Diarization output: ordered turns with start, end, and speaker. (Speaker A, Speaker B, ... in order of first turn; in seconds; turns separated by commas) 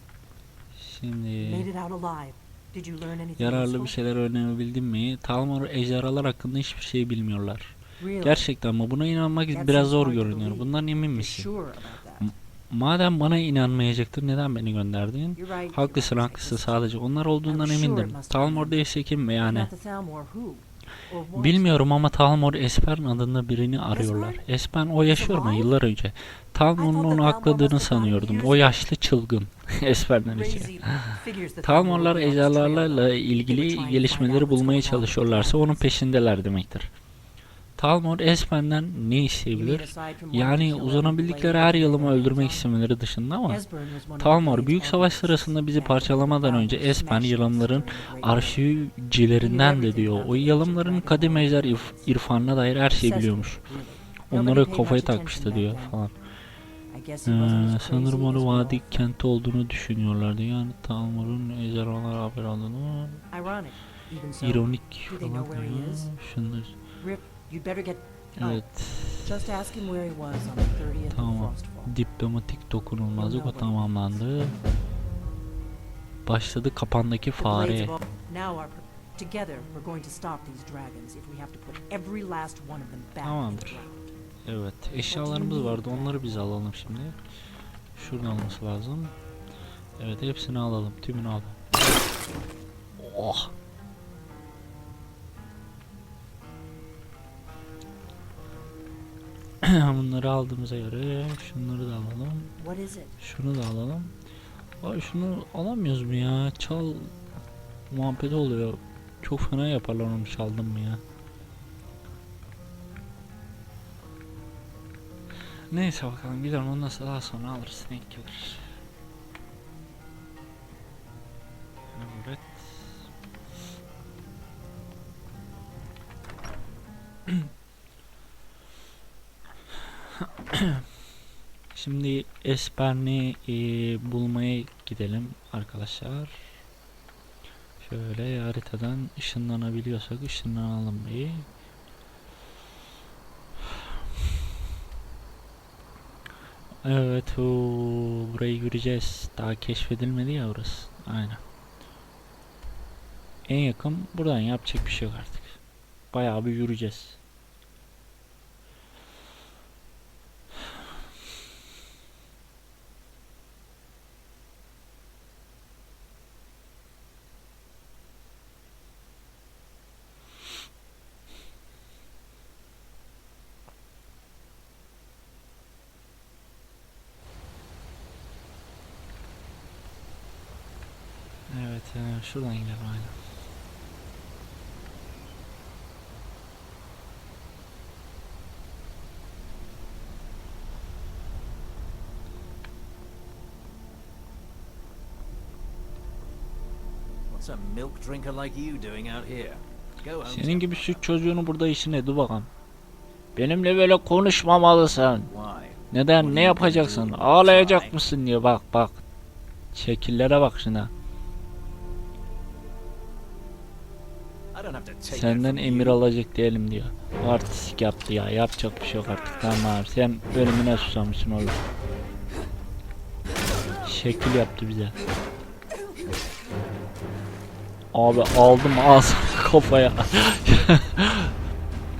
Speaker A: 0.7-1.7, Speaker B: 1.4-4.0, Speaker A: 3.4-11.5, Speaker B: 8.0-8.4, Speaker B: 9.5-12.3, Speaker A: 12.2-19.7, Speaker B: 15.3-16.9, Speaker B: 17.4-18.8, Speaker B: 19.4-21.8, Speaker A: 21.3-36.9, Speaker B: 23.9-24.4, Speaker B: 25.0-25.7, Speaker B: 26.8-28.8, Speaker B: 30.2-35.9, Speaker A: 37.8-43.6, Speaker B: 39.5-42.7, Speaker B: 43.5-48.6, Speaker A: 44.2-53.6, Speaker B: 49.4-52.2, Speaker B: 52.8-56.0, Speaker A: 54.3-56.1, Speaker B: 56.9-59.0, Speaker A: 57.2-63.3, Speaker B: 63.3-66.1, Speaker A: 64.4-66.8, Speaker B: 67.0-68.7, Speaker A: 68.4-69.5, Speaker B: 69.2-71.9, Speaker A: 71.1-74.5, Speaker B: 73.1-74.2, Speaker A: 76.2-78.0, Speaker B: 77.4-84.1, Speaker A: 83.2-83.9, Speaker A: 84.4-87.2, Speaker B: 85.0-86.4, Speaker A: 87.9-89.1, Speaker A: 90.0-91.6, Speaker A: 93.0-93.5, Speaker A: 99.6-102.5, Speaker B: 102.6-103.2, Speaker A: 103.2-104.1, Speaker A: 104.8-107.1, Speaker A: 107.9-111.0, Speaker A: 115.7-118.7, Speaker A: 121.9-123.1, Speaker A: 130.2-130.8, Speaker A: 131.7-136.4, Speaker A: 137.8-141.5, Speaker A: 146.8-151.4, Speaker A: 153.4-155.6, Speaker A: 156.1-157.2, Speaker A: 181.5-183.2, Speaker C: 197.3-201.0, Speaker A: 200.2-202.5, Speaker A: 203.3-205.3, Speaker C: 205.3-208.0, Speaker A: 205.9-209.0, Speaker A: 209.7-210.9, Speaker C: 214.5-216.0, Speaker A: 215.1-221.6, Speaker A: 223.8-224.9, Speaker A: 227.9-231.3